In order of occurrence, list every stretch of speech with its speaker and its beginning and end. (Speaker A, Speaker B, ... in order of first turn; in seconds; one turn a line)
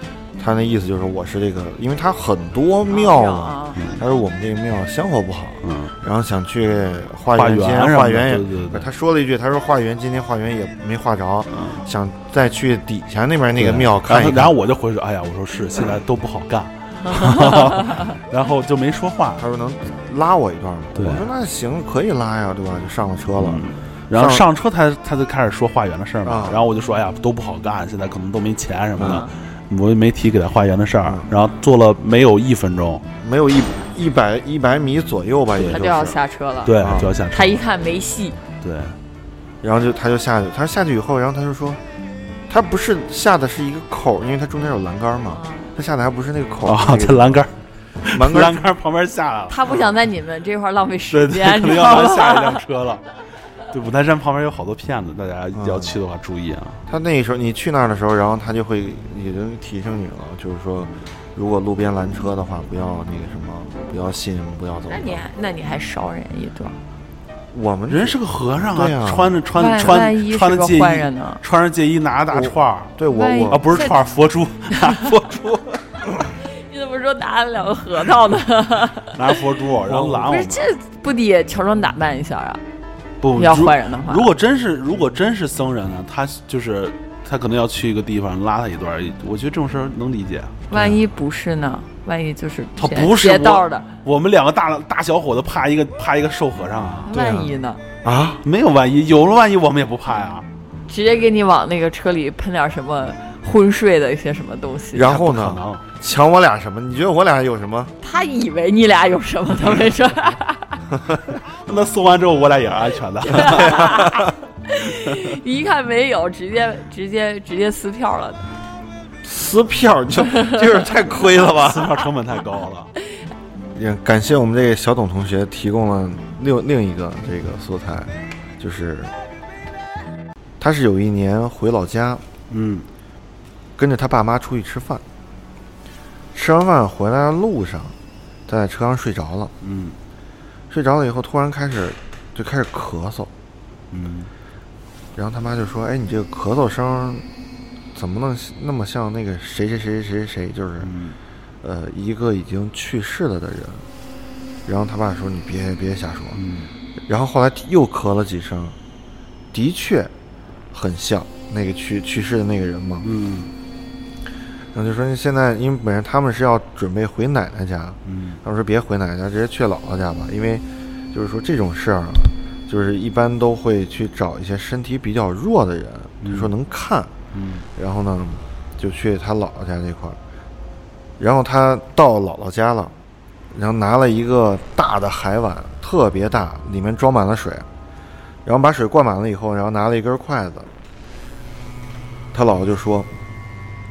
Speaker A: 0.4-14.5
Speaker B: 2.9-3.9
Speaker C: 5.6-5.9
Speaker C: 7.3-8.9
Speaker C: 11.5-11.8
Speaker C: 13.6-19.4
Speaker B: 17.2-18.0
Speaker A: 19.4-24.4
Speaker C: 20.9-21.3
Speaker C: 23.3-33.0
Speaker A: 26.2-26.6
Speaker A: 29.0-29.2
Speaker A: 31.0-31.3
Speaker A: 33.2-36.2
Speaker B: 35.6-36.7
Speaker C: 36.6-37.6
Speaker A: 36.8-37.1
Speaker B: 37.3-38.4
Speaker C: 38.6-39.0
Speaker A: 39.6-41.8
Speaker A: 42.5-47.5
Speaker B: 45.3-45.7
Speaker C: 46.6-49.8
Speaker A: 48.0-48.6
Speaker B: 49.5-52.6
Speaker C: 51.1-53.0
Speaker C: 53.7-56.8
Speaker A: 55.5-56.0
Speaker A: 56.9-65.3
Speaker B: 64.9-66.8
Speaker A: 67.5-70.0
Speaker C: 67.9-72.9
Speaker B: 69.6-71.4
Speaker A: 72.3-73.9
Speaker B: 73.1-74.0
Speaker C: 73.5-75.8
Speaker B: 76.5-79.2
Speaker C: 79.1-80.7
Speaker B: 80.0-82.6
Speaker C: 83.2-90.5
Speaker B: 83.3-84.3
Speaker B: 90.7-93.9
Speaker A: 90.7-91.0
Speaker C: 92.8-97.1
Speaker B: 97.0-97.8
Speaker A: 97.1-98.4
Speaker C: 98.4-100.5
Speaker B: 100.9-105.1
Speaker A: 104.9-107.9
Speaker C: 105.1-105.8
Speaker B: 108.0-110.8
Speaker C: 111.6-113.9
Speaker B: 113.3-118.5
Speaker A: 119.2-121.9
Speaker C: 121.6-122.9
Speaker A: 123.7-129.1
Speaker A: 130.6-132.2
Speaker C: 132.5-132.9
Speaker A: 133.8-135.0
Speaker A: 136.3-137.9
Speaker A: 138.5-139.5
Speaker C: 139.6-140.0
Speaker A: 140.7-143.3
Speaker C: 143.9-144.3
Speaker A: 145.1-147.2
Speaker A: 147.9-150.9
Speaker C: 150.8-151.2
Speaker A: 151.6-153.8
Speaker A: 154.7-156.4
Speaker C: 156.3-156.7
Speaker A: 157.1-158.8
Speaker A: 159.5-160.1
Speaker A: 160.7-163.1
Speaker C: 163.0-163.5
Speaker A: 164.7-177.1
Speaker C: 168.1-168.4
Speaker C: 176.2-176.5
Speaker C: 177.3-177.7
Speaker A: 177.8-180.2
Speaker A: 181.2-182.9
Speaker A: 183.5-187.7
Speaker A: 188.4-190.7
Speaker A: 192.3-193.1